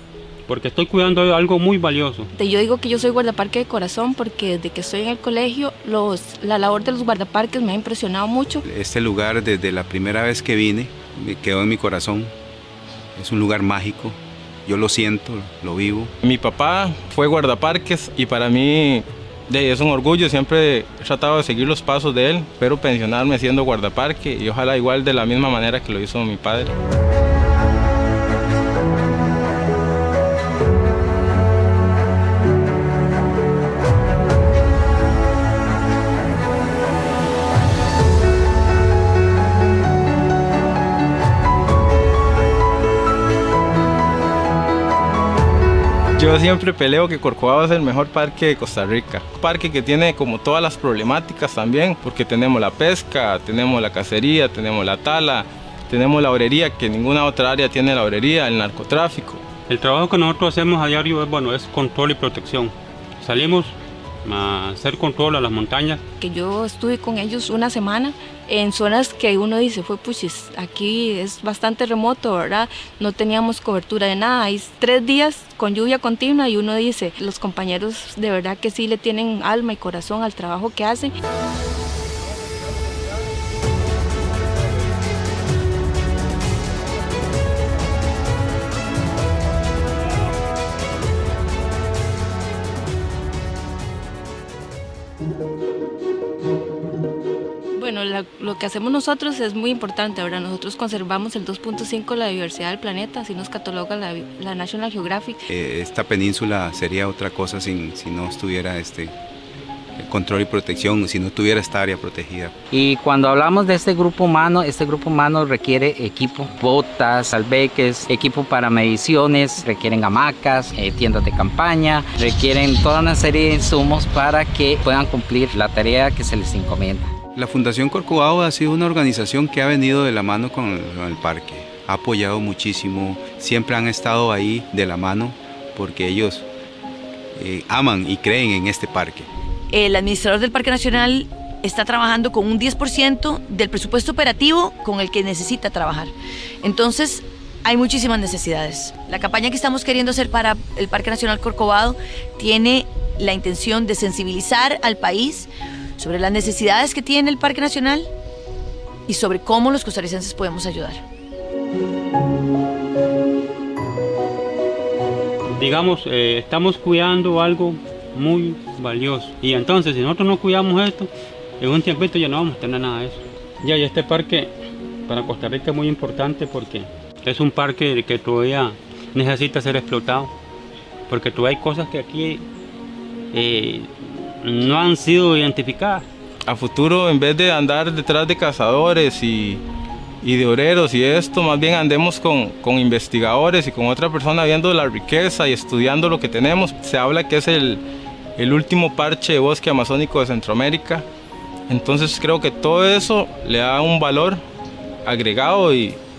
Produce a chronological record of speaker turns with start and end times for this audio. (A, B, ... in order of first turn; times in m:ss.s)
0:00.5-0:02.3 A
0:02.3-0:08.6 B
0:08.6-0:12.3 C
0:13.2-0:16.1 C
0:16.2-0:26.7 D
0:46.2-0:59.4 D
0:59.7-1:06.0 A
1:06.2-1:21.1 B
1:37.8-1:45.4 B
1:45.5-1:49.1 C
1:50.0-1:52.6 C
1:52.7-2:07.1 E
2:07.3-2:16.5 C
2:17.3-2:19.3 C
2:19.7-2:26.1 F
2:26.6-2:38.1 F
2:39.1-2:41.0 F
2:45.5-2:54.5 A
2:55.1-3:00.3 A
3:01.1-3:02.4 A
3:03.3-3:06.0 A
3:06.5-3:09.6 D
3:10.2-3:17.8 D
3:18.4-3:21.0 D
3:21.7-3:24.4 D
3:25.0-3:26.0 D